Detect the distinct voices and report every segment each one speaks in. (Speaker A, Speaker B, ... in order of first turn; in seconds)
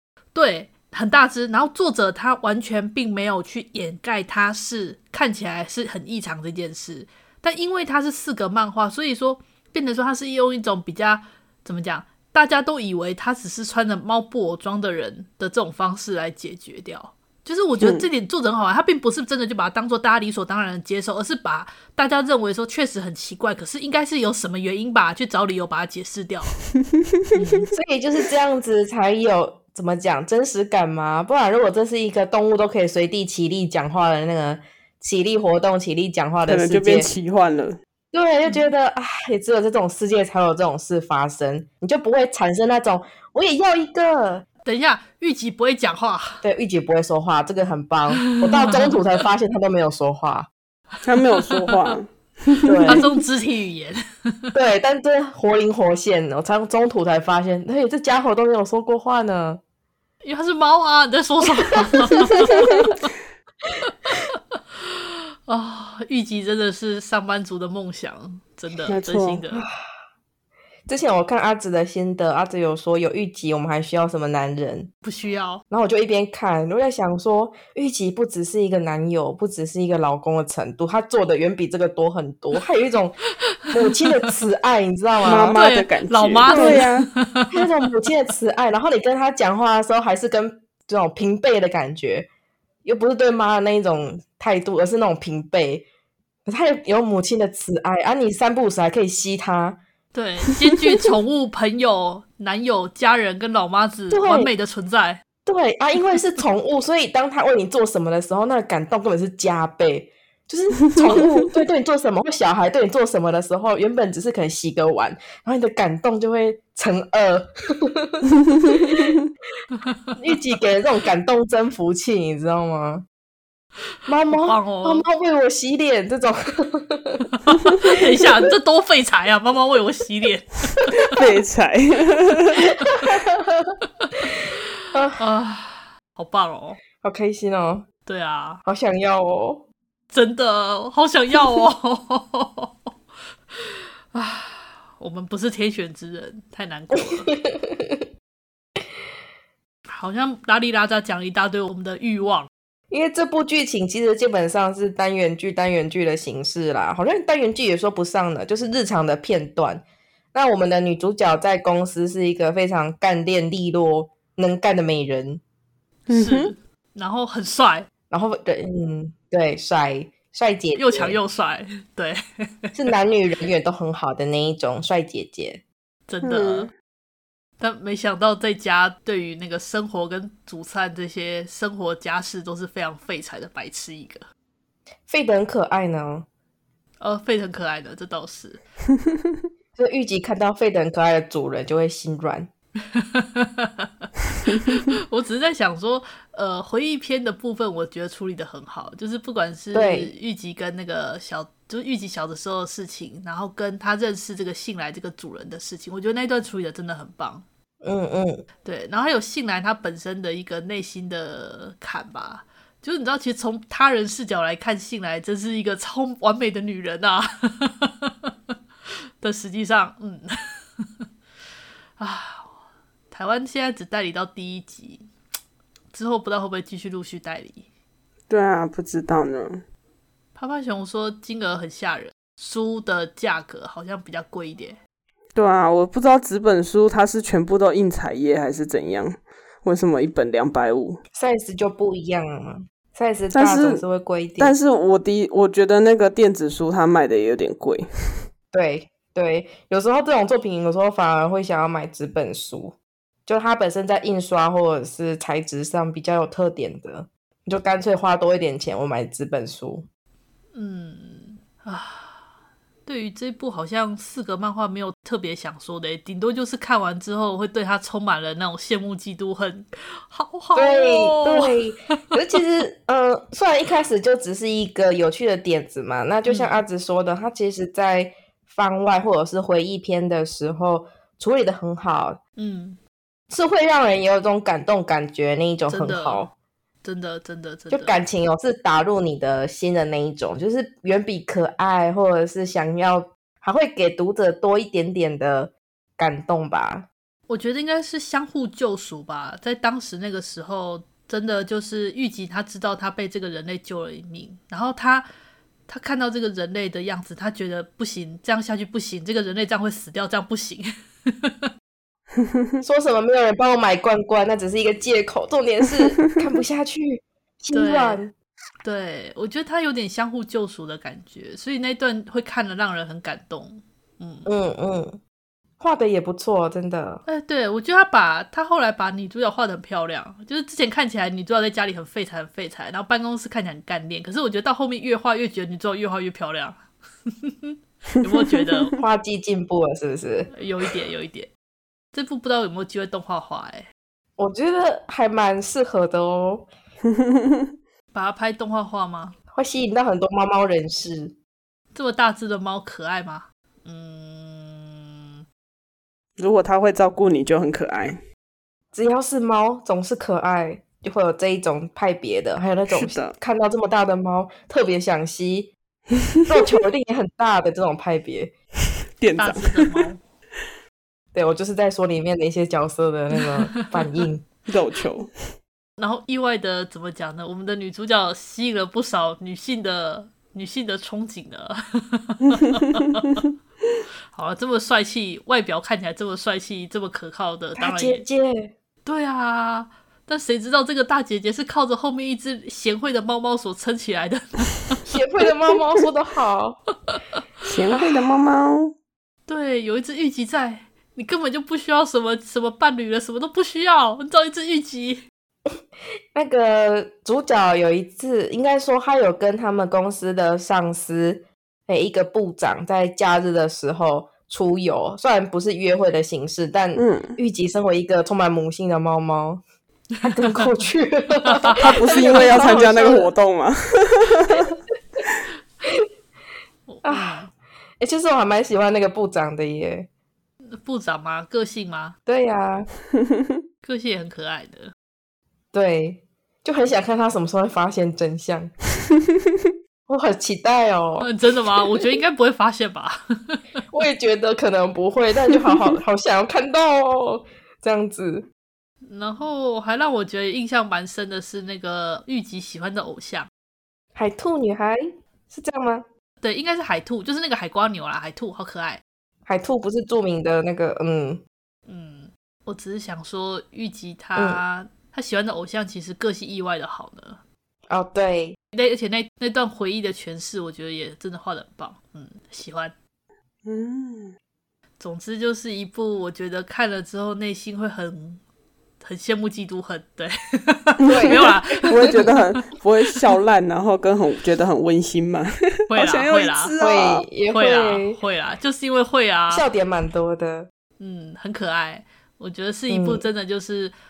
Speaker A: 0.3-26.6, 27.4-27.7, 44.6-46.4, 48.3-48.9, 51.5-51.9, 52.9-54.5, 60.2-63.1, 65.5-69.7, 75.0-75.6, 85.5-87.6, 100.1-105.2, 119.8-120.1, 124.3-125.1, 127.5-130.9, 135.2-136.8, 138.1-138.6, 140.1-142.7, 144.1-147.3, 149.9-152.5, 166.1-167.9, 170.8-172.7, 176.1-176.7, 177.6-184.2, 187.0-188.6, 192.9-207.4, 208.6-218.1, 219.2-220.3, 222.0-222.5, 223.1-225.0, 225.9-227.7, 230.3-234.8, 260.5-262.1, 262.9-272.0, 276.2-276.6, 282.4-282.8, 285.7-286.3, 286.8-288.0, 297.3-305.1, 305.7-311.5, 317.5-318.0, 318.6-324.3, 327.1-336.6, 337.2-338.7, 340.3-341.3, 341.9-343.7, 347.9-349.1, 351.7-355.2, 369.2-370.0, 375.8-383.1, 384.1-388.0, 388.9-394.8, 399.2-405.0, 421.4-422.4, 426.7-427.3, 430.5-431.9, 433.6-434.7, 441.0-443.4, 448.8-453.3, 456.2-458.8, 461.7-467.2, 468.5-472.7, 474.8-478.2, 478.8-482.4, 485.7-486.6, 487.3-489.5, 490.8-493.7
Speaker B: 17.8-18.1, 36.5-37.8, 51.0-52.9, 68.9-69.4, 85.2-87.1, 130.9-132.7, 166.1-166.5, 176.2-176.7, 228.3-229.6, 235.3-241.0, 243.3-243.8, 244.4-247.9, 356.2-358.0, 362.8-363.1, 369.0-369.7, 374.5-375.1, 397.4-398.7, 416.8-417.2, 421.6-424.5, 473.5-474.1, 481.7-487.1
Speaker C: 27.7-37.1, 38.1-44.4, 46.4-50.5, 52.7-53.1, 54.5-59.6, 62.1-62.9, 69.5-69.8, 70.9-74.9, 75.7-83.2, 83.7-85.6, 86.5-86.8, 87.5-92.3, 92.8-95.9, 96.5-99.8, 104.1-104.5, 105.5-119.2, 120.2-123.0, 124.1-127.3, 133.0-133.7, 134.9-135.2, 137.0-137.9, 138.7-139.7, 146.9-148.0, 152.9-159.8, 160.3-165.4, 168.1-171.2, 172.8-175.6, 185.1-186.2, 189.8-192.5, 199.7-200.1, 207.8-208.4, 241.1-244.6, 248.5-259.9, 270.5-282.2, 283.3-286.3, 287.7-296.9, 312.6-318.1, 324.2-325.0, 325.6-327.0, 338.8-340.3, 344.2-346.5, 349.3-351.1, 358.7-365.5, 366.3-368.3, 371.1-374.2, 387.6-388.5, 394.9-396.6, 397.7-398.1, 406.1-419.4, 420.0-423.1, 426.8-427.2, 427.8-429.9, 432.1-432.7, 435.5-438.5, 439.9-441.1, 443.7-448.3, 453.9-455.8, 459.2-461.2, 464.1-464.4, 467.7-468.4, 480.9-482.1, 486.6-488.0, 489.3-490.5, 492.7-493.1